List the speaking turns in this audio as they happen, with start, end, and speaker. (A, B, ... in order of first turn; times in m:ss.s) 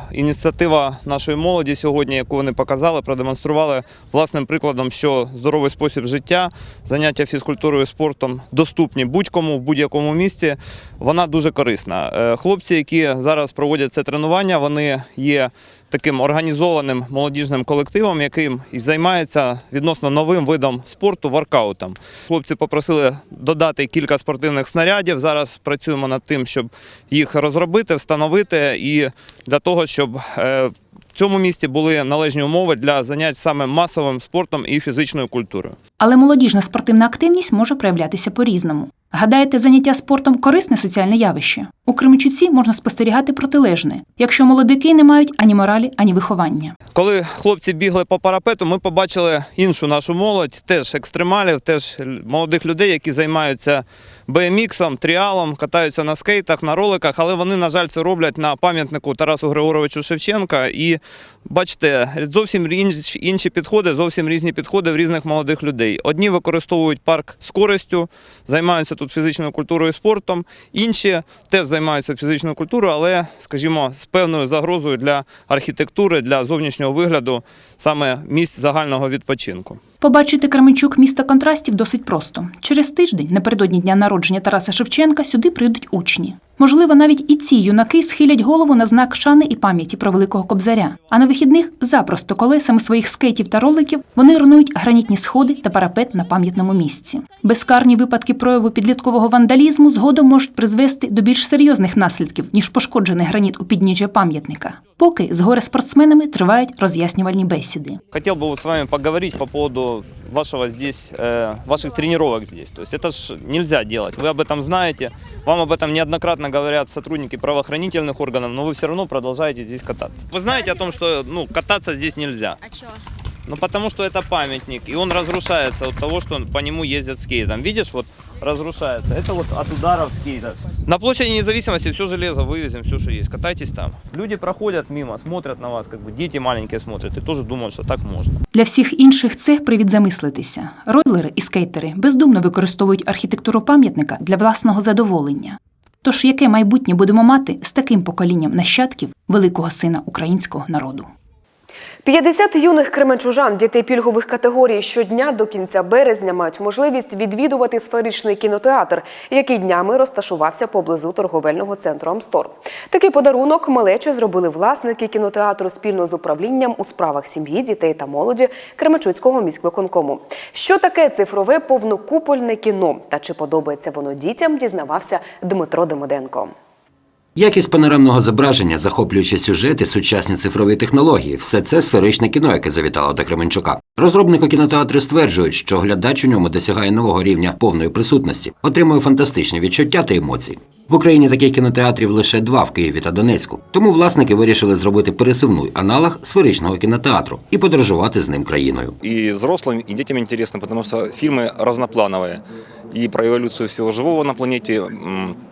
0:00.1-0:35.8 A
0:36.0-0:46.8 B
0:46.9-1:19.8 A
1:20.0-1:48.0 B
1:48.1-2:02.6 A
2:03.5-2:18.4 A
2:18.5-2:31.1 B
2:32.0-2:56.5 C
2:57.4-3:18.9 D
3:19.0-3:25.4 E